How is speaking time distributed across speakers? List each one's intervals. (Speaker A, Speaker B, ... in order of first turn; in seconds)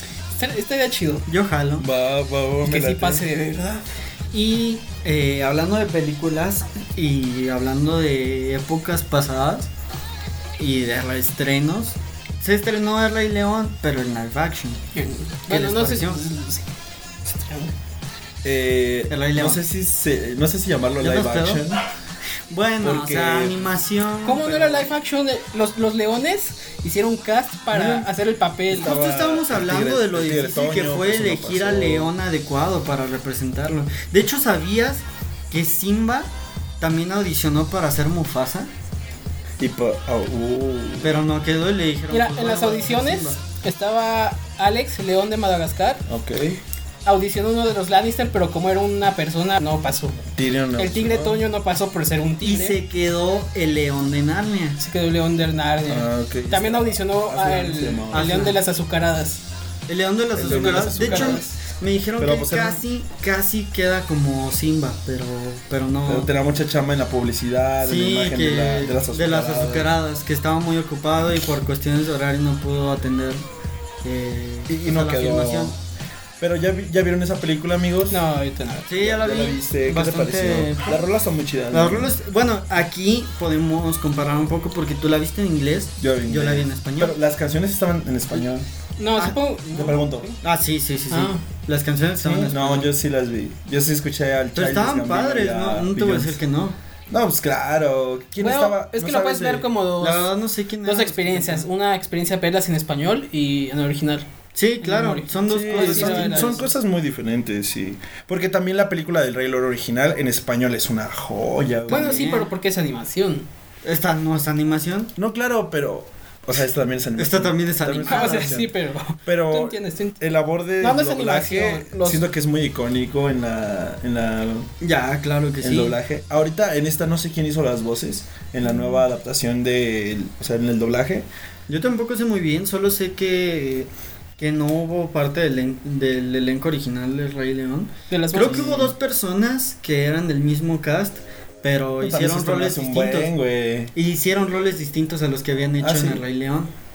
Speaker A: 0.3-1.3, 2.6-3.8, 14.9-16.7, 17.2-17.7, 24.2-28.9, 42.1-46.0, 47.0-52.8, 54.8-59.4, 60.5-61.5, 78.1-78.9, 89.0-90.4, 91.1-91.4, 98.4-100.3, 100.8-104.3, 104.8-106.6, 111.9-113.5, 118.0-120.2, 120.8-122.2, 138.1-138.9
Speaker B: 1.3-1.9, 4.3-9.7, 10.6-14.8, 15.5-16.3, 19.1-19.6, 21.0-21.6, 22.5-24.9, 27.7-28.1, 28.8-38.7, 41.0-43.4, 52.4-54.8, 58.1-58.6, 59.9-66.3, 67.8-73.4, 74.0-75.7, 78.9-81.0, 81.7-87.2, 90.4-92.9, 94.5-96.8, 100.0-101.7, 104.5-106.7, 111.9-112.5, 113.8-115.1, 117.2-118.5, 124.8-126.0, 131.7-143.3, 143.9-146.7
Speaker C: 1.8-3.3, 18.4-21.8, 22.8-23.6, 28.7-32.1, 39.6-41.2, 46.1-46.6, 50.4-51.4, 55.9-58.5, 60.4-61.5, 62.2-62.8, 66.0-70.0, 74.7-75.8, 76.4-78.2, 78.9-82.1, 86.0-88.7, 89.7-90.3, 92.2-96.4, 97.1-99.7, 105.5-112.3, 115.2-118.7, 119.3-124.7, 125.6-131.3, 138.3-138.8, 142.0-143.9, 145.8-146.2